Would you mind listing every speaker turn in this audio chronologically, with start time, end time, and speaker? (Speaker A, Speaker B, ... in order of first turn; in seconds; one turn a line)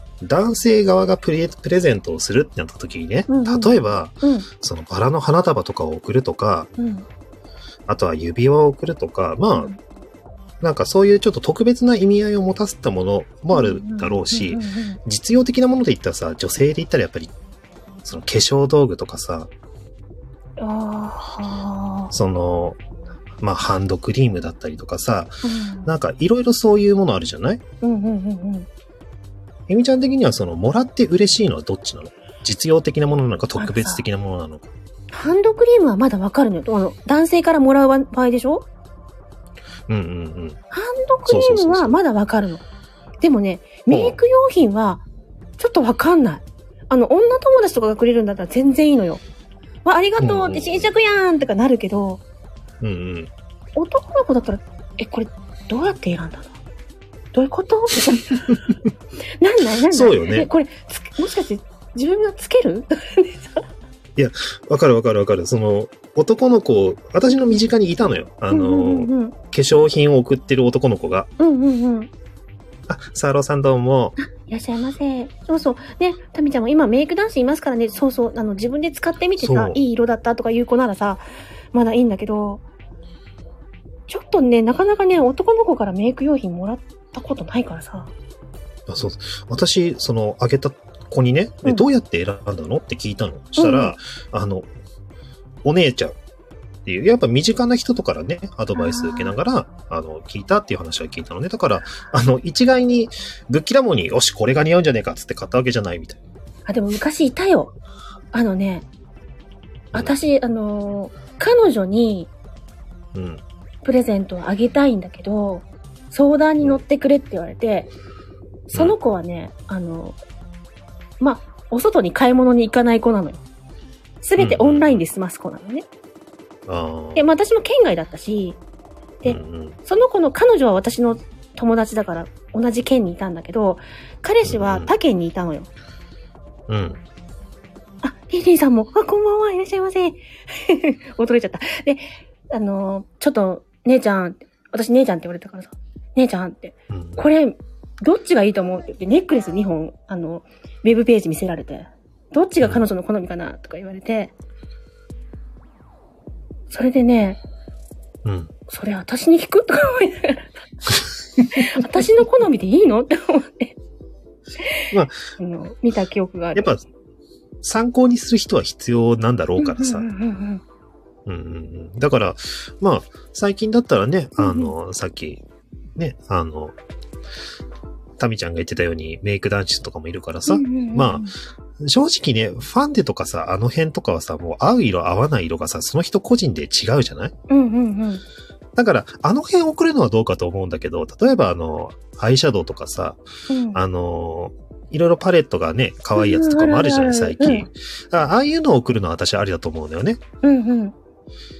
Speaker A: 0.2-6.7
Speaker B: 3.3-4.5
Speaker B: 6.8-7.0
Speaker A: 7.9-9.7
Speaker A: 10.6-17.3
Speaker B: 13.5-15.0
Speaker A: 18.0-19.5
Speaker B: 20.6-22.1
Speaker A: 22.1-22.8
Speaker A: 23.4-27.6
Speaker B: 25.4-25.9
Speaker B: 27.8-28.7
Speaker A: 29.7-34.7
Speaker B: 33.6-34.0
Speaker B: 35.1-38.7
Speaker A: 39.9-40.6
Speaker B: 40.7-42.6
Speaker A: 41.3-42.0
Speaker B: 43.2-45.0
Speaker A: 43.9-44.2
Speaker B: 45.6-49.2
Speaker B: 49.8-52.2
Speaker A: 50.2-50.9
Speaker A: 52.8-53.3
Speaker B: 53.8-56.6
Speaker B: 57.3-58.7
Speaker B: 59.4-63.6
Speaker A: 59.9-60.5
Speaker A: 64.2-71.3
Speaker B: 68.5-69.3
Speaker B: 71.4-72.1
Speaker A: 72.9-74.2
Speaker B: 74.2-82.6
Speaker A: 79.4-79.8
Speaker B: 84.1-88.1
Speaker A: 88.9-94.7
Speaker B: 93.6-94.0
Speaker A: 95.6-96.2
Speaker A: 96.8-106.2
Speaker B: 98.7-99.3
Speaker B: 106.7-107.7
Speaker B: 108.3-108.9
Speaker B: 109.9-112.3
Speaker A: 113.1-113.4
Speaker B: 113.8-117.9
Speaker B: 118.7-120.2
Speaker B: 121.2-123.4
Speaker B: 124.2-125.8
Speaker A: 124.4-125.0
Speaker A: 126.7-127.3
Speaker B: 127.1-128.6
Speaker B: 129.2-135.7
Speaker A: 129.2-129.8
Speaker A: 134.4-134.9
Speaker A: 136.7-137.0
Speaker B: 138.0-154.3
Speaker A: 146.9-147.2
Speaker B: 156.7-157.4
Speaker A: 158.2-158.5
Speaker B: 158.7-163.7
Speaker A: 161.5-161.8
Speaker B: 164.6-166.7
Speaker A: 166.6-166.8
Speaker A: 167.6-170.1
Speaker B: 169.6-170.6
Speaker A: 171.2-175.4
Speaker B: 174.4-174.7
Speaker A: 175.9-176.7
Speaker A: 178.2-187.3
Speaker B: 180.5-181.3
Speaker B: 187.5-188.2
Speaker A: 188.8-193.2
Speaker B: 193.5-193.8
Speaker A: 193.7-200.2
Speaker B: 196.2-197.7
Speaker B: 200.4-200.9